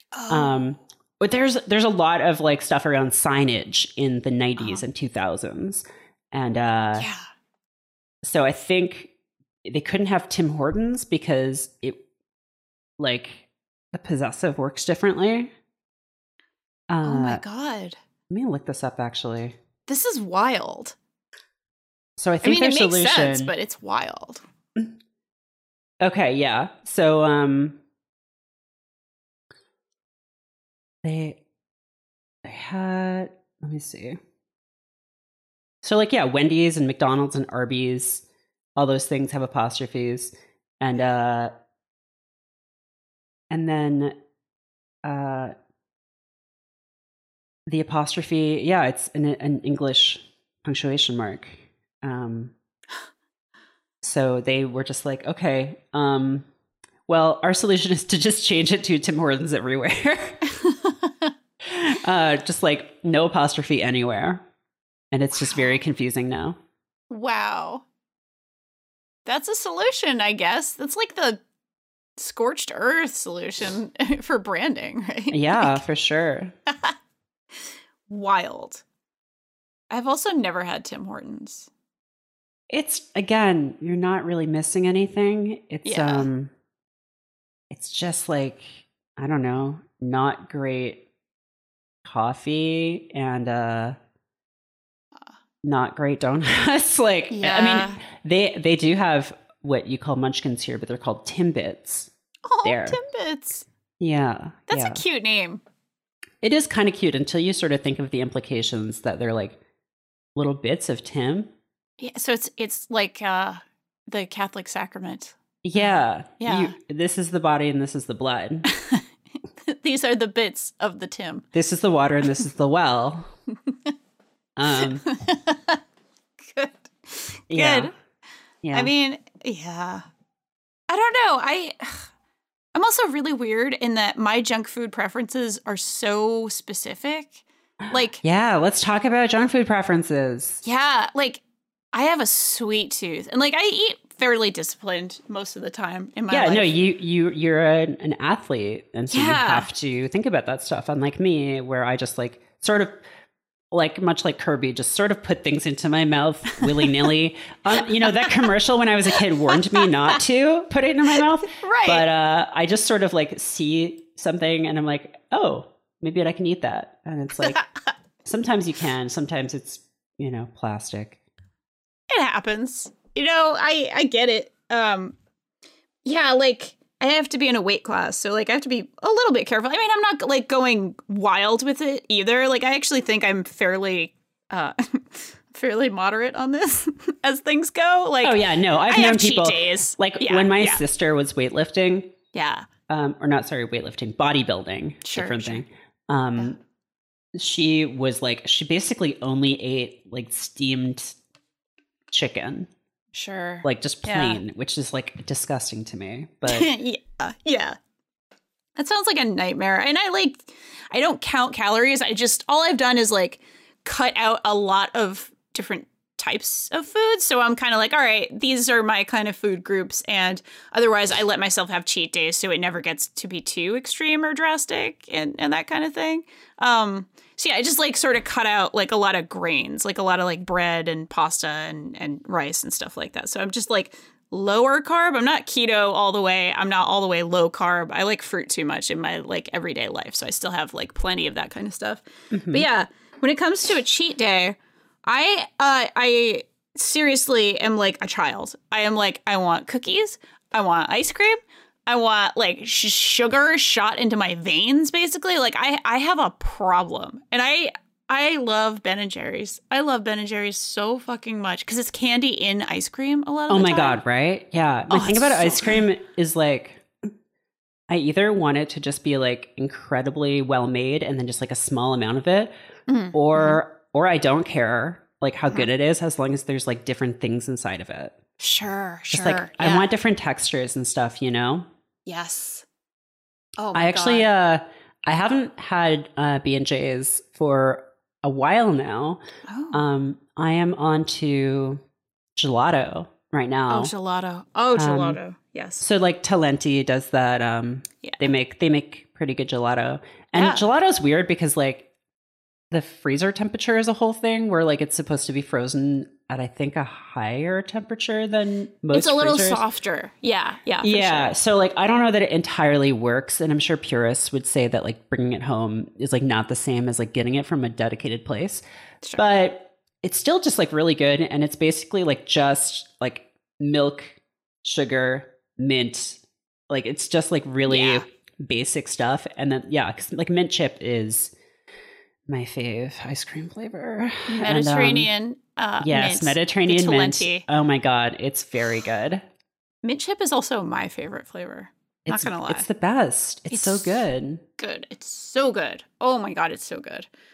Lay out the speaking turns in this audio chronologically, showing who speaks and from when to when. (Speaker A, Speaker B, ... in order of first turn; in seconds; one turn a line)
Speaker A: 0.1-0.6
Speaker B: 0.3-7.1
Speaker A: 4.6-4.8
Speaker A: 6.9-7.2
Speaker B: 8.2-9.1
Speaker B: 9.6-12.0
Speaker B: 13.0-15.5
Speaker B: 16.9-17.4
Speaker A: 17.0-18.0
Speaker B: 18.3-19.6
Speaker A: 19.9-20.9
Speaker B: 22.2-23.5
Speaker A: 22.4-24.4
Speaker B: 26.0-27.8
Speaker B: 31.0-31.4
Speaker B: 32.4-34.2
Speaker B: 35.8-38.2
Speaker B: 38.8-41.5
Speaker B: 43.5-44.1
Speaker B: 45.0-45.5
Speaker B: 47.7-52.5
Speaker B: 54.0-56.5
Speaker B: 57.1-60.4
Speaker A: 60.5-61.3
Speaker B: 61.6-64.4
Speaker B: 65.1-66.5
Speaker A: 65.3-65.8
Speaker A: 67.1-67.8
Speaker A: 69.2-71.4
Speaker A: 72.2-75.8
Speaker B: 75.3-76.5
Speaker A: 76.7-76.9
Speaker A: 78.1-78.8
Speaker A: 79.9-81.7
Speaker B: 82.7-86.5
Speaker A: 85.8-86.3
Speaker B: 87.7-91.0
Speaker B: 92.0-94.0
Speaker B: 95.6-102.1
Speaker A: 97.3-98.0
Speaker A: 102.5-103.7
Speaker B: 102.6-103.0
Speaker B: 104.0-105.0
Speaker A: 104.7-105.6
Speaker B: 106.4-109.6
Speaker B: 110.3-111.5
Speaker A: 112.0-116.7
Speaker B: 115.6-118.7
Speaker A: 118.7-119.0
Speaker A: 119.6-121.4
Speaker B: 121.5-123.3
Speaker B: 124.6-125.0
Speaker A: 124.8-125.8
Speaker A: 126.4-127.9
Speaker B: 127.5-127.9
Speaker B: 128.6-128.9
Speaker A: 128.7-130.0
Speaker A: 130.9-132.1
Speaker A: 132.7-138.2
Speaker B: 137.8-140.6
Speaker A: 140.6-141.4
Speaker A: 141.9-146.8
Speaker B: 146.3-153.0
Speaker A: 149.1-149.7
Speaker B: 153.7-167.6
Speaker A: 156.6-156.9
Speaker A: 159.5-160.2
Speaker A: 161.4-162.1
Speaker A: 167.4-167.8
Speaker B: 168.2-171.2
Speaker A: 172.1-175.2
Speaker A: 176.0-190.8
Speaker B: 188.2-192.1
Speaker A: 192.3-192.7
Speaker B: 192.9-196.6
Speaker A: 195.0-195.6
Speaker B: 197.3-201.2
Speaker B: 202.1-202.7
Speaker A: 203.1-204.4
Speaker B: 203.6-206.7
Speaker A: 206.5-207.8
Speaker A: 208.8-264.0
Speaker B: 242.3-242.7
Speaker B: 263.5-266.9
Speaker A: 264.9-265.8
Speaker B: 267.9-272.5
Speaker A: 272.9-273.6
Speaker B: 273.1-278.1
Speaker A: 278.4-279.9
Speaker B: 279.1-281.6
Speaker A: 282.1-282.6
Speaker A: 283.6-284.3
Speaker B: 283.7-289.2
Speaker A: 289.4-289.8
Speaker B: 289.7-291.8
Speaker B: 292.4-293.9
Speaker A: 293.7-295.8
Speaker B: 294.7-295.2
Speaker B: 295.8-301.9
Speaker A: 298.0-298.3
Speaker A: 300.3-300.6
Speaker B: 302.7-309.6
Speaker A: 308.9-311.3
Speaker B: 310.8-318.6
Speaker A: 319.0-319.3
Speaker B: 319.1-331.3
Speaker A: 327.7-328.1
Speaker B: 332.3-335.1
Speaker A: 334.3-337.4
Speaker B: 335.8-339.2
Speaker A: 339.8-342.6
Speaker B: 342.1-344.4
Speaker A: 343.5-344.0
Speaker A: 344.6-347.1